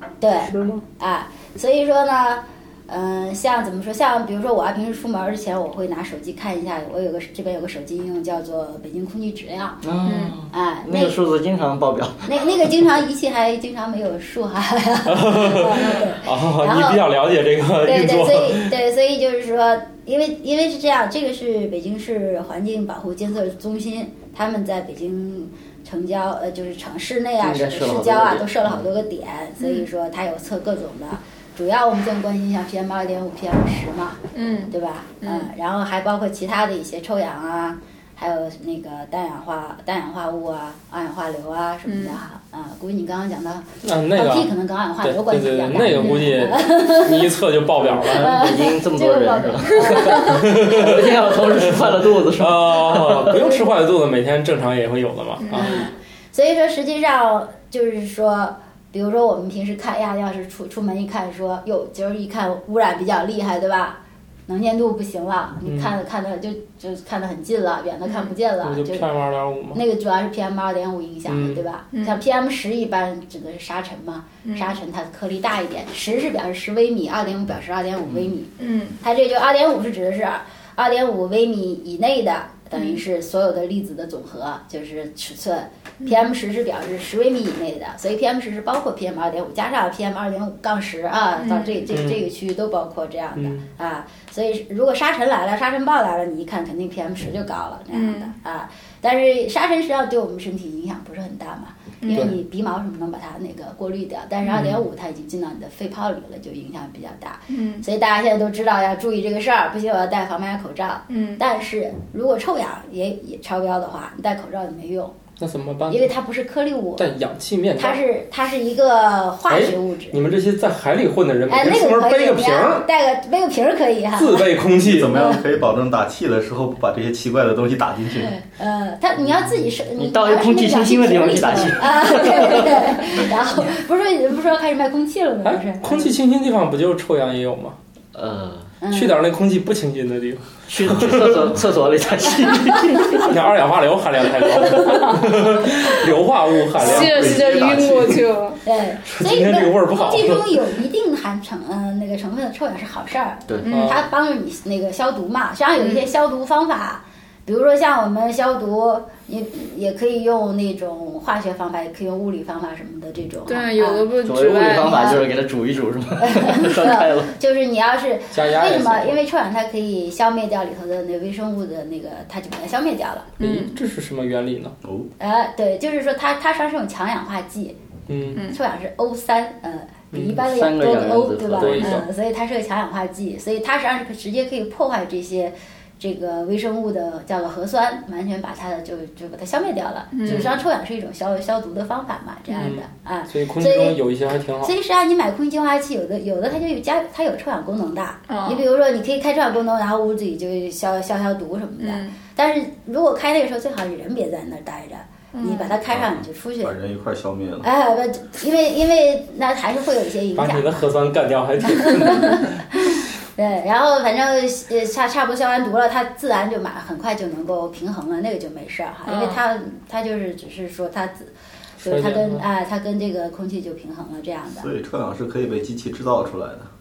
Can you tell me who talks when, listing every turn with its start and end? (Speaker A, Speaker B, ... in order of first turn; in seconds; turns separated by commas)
Speaker A: 0.2-9.8, Speaker B: 0.5-0.8, Speaker C: 9.8-12.7, Speaker D: 10.1-10.4, Speaker A: 10.5-11.2, Speaker A: 12.3-17.0, Speaker B: 15.1-18.7, Speaker D: 15.8-16.1, Speaker A: 17.8-47.3, Speaker C: 27.4-28.9, Speaker D: 29.6-29.9, Speaker D: 34.3-35.5, Speaker D: 41.9-42.2, Speaker B: 43.8-48.4, Speaker C: 47.8-53.5, Speaker A: 48.2-50.3, Speaker D: 49.9-50.1, Speaker B: 50.1-55.7, Speaker D: 55.4-55.8, Speaker A: 55.5-69.0, Speaker B: 65.6-65.9, Speaker D: 68.1-68.3, Speaker B: 68.6-69.8, Speaker A: 69.7-115.1, Speaker B: 71.3-71.6, Speaker D: 71.9-72.2, Speaker D: 74.4-74.8, Speaker D: 78.6-79.0, Speaker D: 82.7-83.0, Speaker D: 91.4-91.8, Speaker B: 91.9-92.2, Speaker B: 93.4-93.7, Speaker D: 97.9-98.4, Speaker D: 102.0-102.3, Speaker B: 104.5-104.8, Speaker D: 107.5-107.8, Speaker D: 111.1-111.4, Speaker B: 115.4-116.1, Speaker A: 115.9-117.1, Speaker B: 117.0-118.0, Speaker A: 117.8-120.2, Speaker B: 119.5-122.9, Speaker A: 121.5-124.5, Speaker B: 124.1-125.2, Speaker E: 124.8-128.4, Speaker A: 128.2-136.1, Speaker C: 130.0-133.1, Speaker B: 135.4-137.8, Speaker C: 138.1-138.7, Speaker A: 138.8-139.2, Speaker B: 138.9-141.6, Speaker C: 140.7-143.3, Speaker B: 143.1-147.6, Speaker D: 144.9-145.2, Speaker D: 146.7-148.6, Speaker E: 147.0-148.2, Speaker A: 148.6-164.1, Speaker B: 149.1-150.6, Speaker D: 153.6-154.0, Speaker B: 153.7-154.0, Speaker D: 155.8-156.1, Speaker D: 163.5-165.2, Speaker C: 164.2-167.3, Speaker A: 164.8-165.2, Speaker A: 166.2-173.3, Speaker B: 168.3-169.2, Speaker D: 173.4-173.8, Speaker B: 173.4-174.8, Speaker A: 175.2-177.8, Speaker B: 178.1-178.4, Speaker D: 178.3-178.6, Speaker A: 178.5-194.0, Speaker B: 180.1-180.4, Speaker C: 180.4-181.8, Speaker B: 181.6-182.1, Speaker D: 190.1-190.5, Speaker B: 190.2-190.5, Speaker B: 192.5-194.7, Speaker A: 194.6-206.8, Speaker D: 198.3-198.6, Speaker D: 201.8-202.2, Speaker D: 205.3-205.8, Speaker E: 205.9-207.7, Speaker A: 207.6-210.7, Speaker B: 210.4-212.6, Speaker A: 211.7-221.3, Speaker D: 219.1-219.4, Speaker B: 221.8-222.4, Speaker A: 221.8-224.7, Speaker E: 224.6-226.7